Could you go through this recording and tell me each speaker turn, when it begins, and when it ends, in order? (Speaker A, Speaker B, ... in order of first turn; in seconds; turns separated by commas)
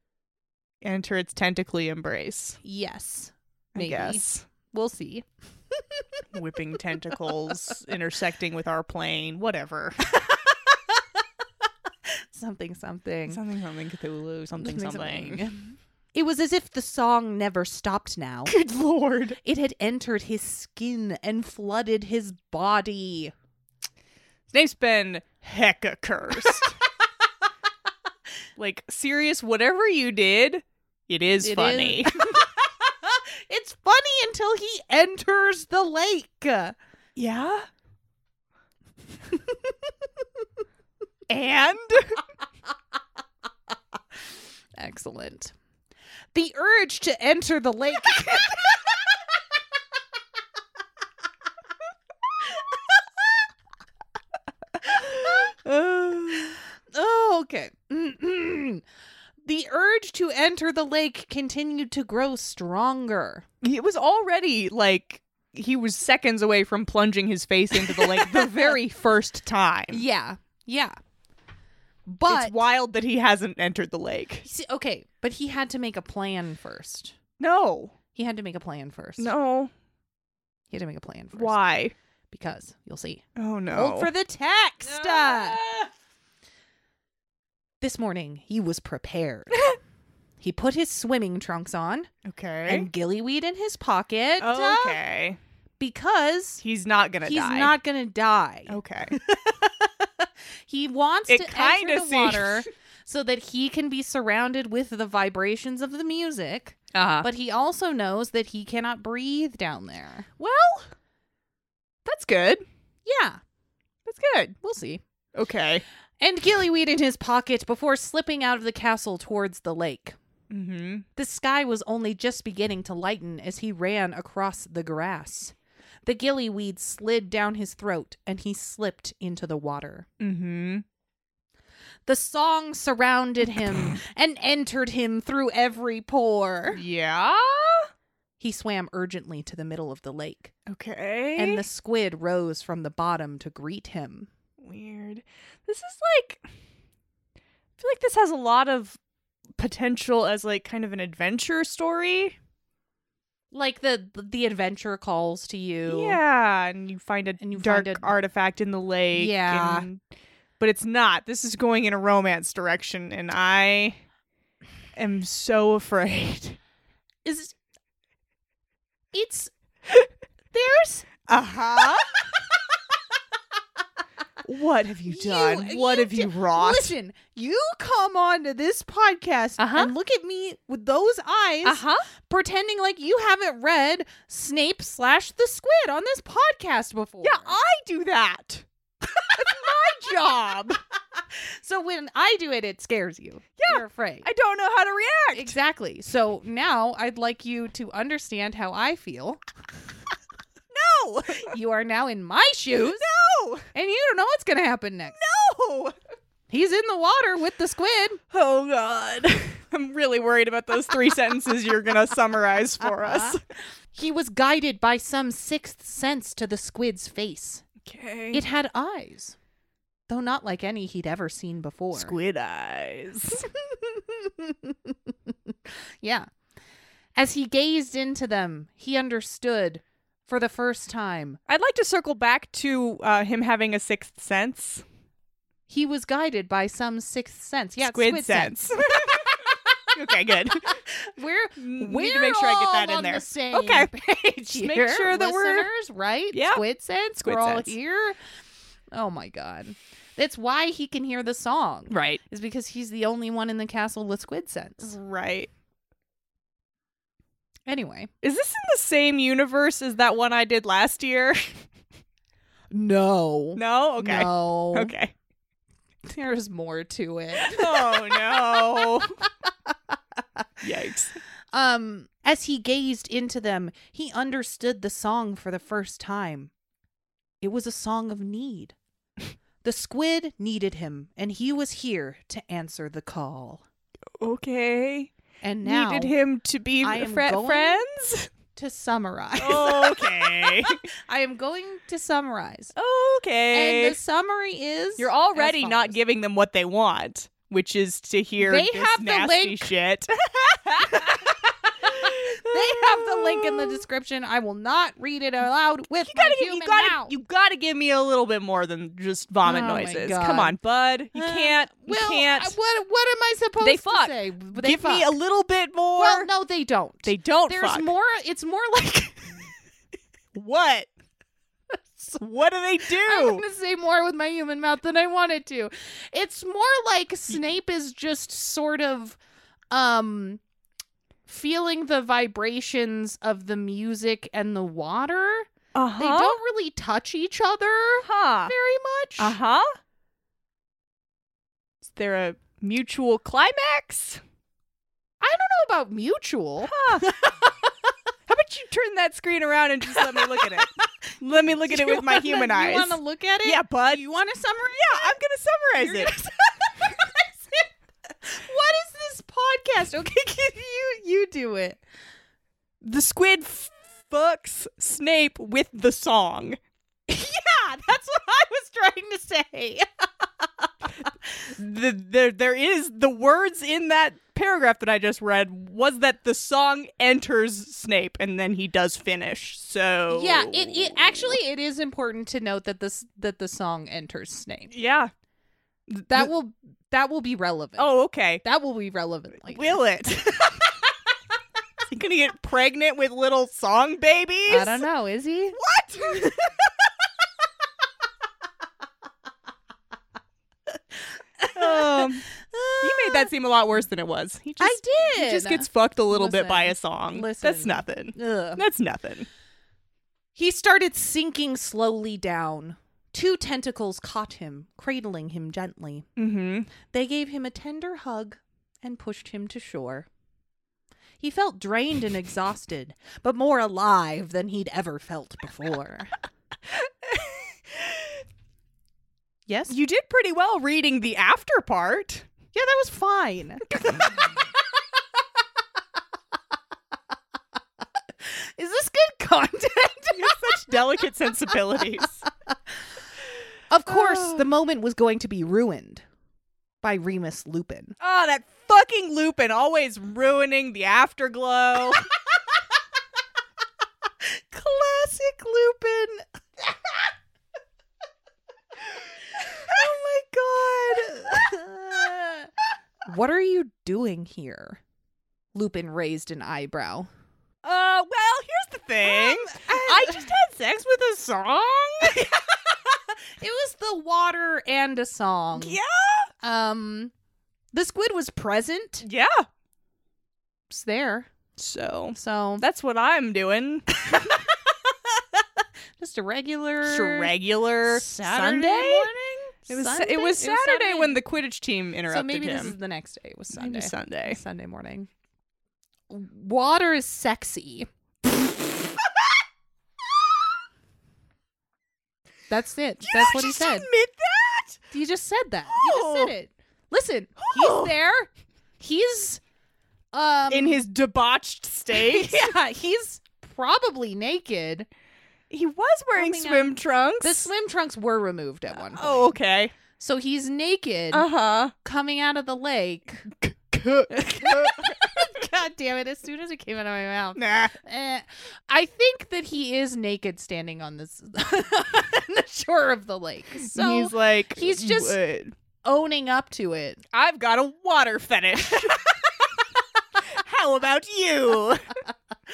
Speaker A: 0.8-2.6, Speaker B: 2.6-6.0, Speaker A: 3.7-4.4, Speaker A: 6.3-10.0, Speaker B: 12.1-13.4, Speaker A: 13.3-15.5, Speaker B: 14.6-18.5, Speaker A: 18.5-19.4, Speaker B: 19.4-23.3, Speaker A: 24.5-26.7, Speaker A: 28.6-32.4, Speaker B: 31.4-36.8, Speaker A: 37.1-37.7, Speaker A: 41.3-42.2, Speaker B: 44.8-45.5, Speaker B: 46.3-48.7, Speaker A: 54.8-56.6, Speaker B: 56.9-58.8, Speaker B: 59.4-63.4, Speaker A: 63.6-70.0, Speaker B: 68.1-68.6, Speaker B: 69.9-71.0, Speaker B: 72.1-72.6, Speaker A: 72.3-74.5, Speaker B: 74.4-77.2, Speaker A: 77.4-77.9, Speaker B: 78.1-79.3, Speaker A: 79.2-79.7, Speaker B: 80.7-81.6, Speaker A: 81.3-81.9, Speaker B: 82.3-85.6, Speaker A: 83.3-84.1, Speaker A: 84.8-85.9, Speaker B: 87.8-89.8, Speaker B: 90.4-92.1, Speaker A: 92.2-92.9, Speaker B: 92.7-95.0, Speaker A: 94.4-95.4, Speaker B: 95.8-96.6, Speaker A: 96.6-97.7, Speaker B: 97.2-110.3, Speaker A: 98.7-99.1, Speaker A: 101.3-102.7, Speaker A: 106.9-107.3, Speaker A: 110.4-110.9, Speaker A: 112.0-112.6, Speaker B: 113.0-113.4, Speaker A: 114.0-114.6, Speaker B: 114.6-115.0, Speaker A: 115.3-115.8, Speaker B: 116.2-120.2, Speaker A: 120.5-121.0, Speaker B: 121.2-130.1, Speaker A: 130.2-130.8, Speaker B: 132.1-136.8, Speaker A: 133.6-133.9, Speaker A: 136.7-137.9, Speaker B: 138.4-140.5, Speaker A: 140.7-141.6, Speaker B: 141.3-144.3, Speaker A: 144.6-146.4, Speaker A: 147.8-149.0, Speaker A: 149.6-152.3, Speaker B: 153.5-156.2, Speaker A: 155.8-160.0, Speaker B: 157.4-158.1, Speaker B: 159.1-159.9, Speaker A: 160.6-164.0, Speaker A: 164.9-166.6, Speaker B: 167.2-167.6, Speaker B: 169.1-169.5, Speaker B: 170.5-171.1, Speaker A: 171.3-172.2, Speaker A: 174.4-176.9, Speaker B: 175.1-187.6, Speaker A: 179.6-179.9, Speaker A: 181.6-182.1, Speaker A: 187.2-190.8, Speaker B: 191.2-194.3, Speaker A: 193.6-195.6, Speaker B: 195.3-199.4, Speaker A: 200.7-201.5, Speaker B: 201.4-203.1, Speaker A: 202.9-203.7, Speaker B: 203.7-205.2, Speaker A: 205.1-205.9, Speaker B: 206.5-208.2, Speaker A: 208.3-213.4, Speaker B: 212.8-213.4, Speaker B: 213.9-217.6, Speaker A: 217.8-218.4, Speaker B: 218.3-219.3, Speaker B: 220.1-222.2, Speaker A: 221.9-223.5, Speaker B: 223.5-226.3, Speaker B: 227.2-231.4, Speaker A: 231.5-234.8, Speaker B: 235.7-239.5, Speaker A: 237.8-240.8, Speaker B: 240.6-248.2, Speaker A: 241.6-243.9, Speaker A: 244.5-245.7, Speaker A: 246.3-246.6, Speaker A: 247.2-247.8, Speaker B: 248.9-254.9, Speaker A: 251.9-252.2, Speaker A: 254.8-255.5, Speaker B: 257.7-258.1, Speaker A: 258.2-261.6, Speaker B: 262.7-264.9, Speaker A: 263.6-265.1, Speaker B: 266.0-268.9, Speaker A: 267.3-269.2, Speaker A: 270.6-271.1, Speaker B: 271.5-276.5, Speaker B: 277.4-278.8, Speaker B: 279.6-283.6, Speaker A: 284.2-285.1, Speaker B: 285.4-286.1, Speaker A: 285.6-288.3, Speaker B: 286.8-287.8, Speaker B: 288.5-292.7, Speaker A: 289.4-290.8, Speaker A: 292.7-294.0, Speaker B: 293.5-296.0, Speaker A: 295.0-303.8, Speaker B: 298.4-299.7, Speaker B: 300.8-307.1, Speaker A: 306.0-312.6, Speaker B: 309.4-310.6, Speaker B: 311.1-315.1, Speaker A: 313.6-316.3, Speaker B: 315.9-319.5, Speaker A: 317.0-317.9, Speaker A: 320.3-320.9, Speaker A: 322.2-323.4, Speaker B: 322.9-329.2, Speaker B: 329.7-330.4, Speaker B: 331.2-339.4, Speaker A: 335.7-336.4, Speaker A: 338.0-338.5, Speaker A: 339.2-339.8, Speaker A: 341.8-344.2, Speaker B: 345.2-347.7, Speaker A: 346.6-347.1, Speaker A: 348.3-354.0, Speaker B: 350.0-350.7, Speaker B: 351.6-355.2, Speaker A: 354.7-356.2, Speaker B: 355.8-361.8, Speaker A: 362.8-366.6, Speaker B: 367.1-369.9, Speaker B: 370.4-370.9, Speaker A: 371.4-381.3, Speaker B: 380.1-384.7, Speaker A: 384.7-385.1, Speaker A: 385.9-386.3, Speaker B: 386.1-390.6, Speaker A: 387.8-388.4, Speaker A: 389.4-390.6, Speaker A: 391.9-394.9, Speaker B: 394.5-395.6, Speaker A: 395.5-396.4, Speaker B: 396.1-396.4, Speaker B: 401.4-403.3, Speaker A: 401.5-402.2, Speaker A: 402.8-409.3, Speaker B: 404.6-408.6, Speaker B: 410.3-416.1, Speaker A: 416.2-416.7, Speaker B: 416.9-420.1, Speaker B: 421.2-426.2, Speaker A: 426.7-428.2, Speaker B: 429.4-429.8, Speaker A: 429.7-432.3, Speaker B: 432.5-434.3, Speaker B: 438.2-440.6, Speaker A: 440.1-442.2, Speaker B: 443.7-446.0, Speaker A: 443.9-444.4, Speaker B: 446.8-447.9, Speaker A: 448.0-452.1, Speaker B: 454.2-457.0, Speaker A: 459.6-461.5, Speaker B: 460.7-462.5, Speaker B: 463.1-464.8, Speaker B: 465.5-467.1, Speaker A: 467.6-472.3, Speaker B: 469.0-470.3, Speaker B: 472.0-475.8, Speaker A: 475.6-476.3, Speaker B: 476.4-477.1, Speaker B: 477.7-479.1, Speaker A: 479.0-479.5, Speaker B: 480.7-481.3, Speaker A: 481.6-484.4, Speaker B: 482.1-482.6, Speaker B: 486.0-487.3, Speaker A: 486.8-489.1, Speaker B: 487.8-491.2, Speaker A: 489.7-492.7, Speaker B: 492.1-495.1, Speaker A: 493.5-494.4, Speaker B: 496.1-497.9, Speaker B: 502.5-503.9, Speaker A: 503.0-504.8, Speaker B: 504.9-509.4, Speaker A: 505.7-506.3, Speaker A: 507.4-507.9, Speaker B: 510.1-510.8, Speaker A: 510.5-512.5, Speaker B: 511.9-514.9, Speaker A: 515.5-517.5, Speaker B: 516.1-519.3, Speaker A: 518.7-519.7, Speaker B: 519.9-521.3, Speaker A: 521.1-521.7, Speaker B: 521.8-523.3, Speaker A: 523.3-525.3, Speaker B: 524.1-535.2, Speaker A: 527.4-527.8, Speaker A: 533.6-535.5, Speaker B: 535.8-537.0, Speaker A: 537.1-539.1, Speaker A: 540.2-541.9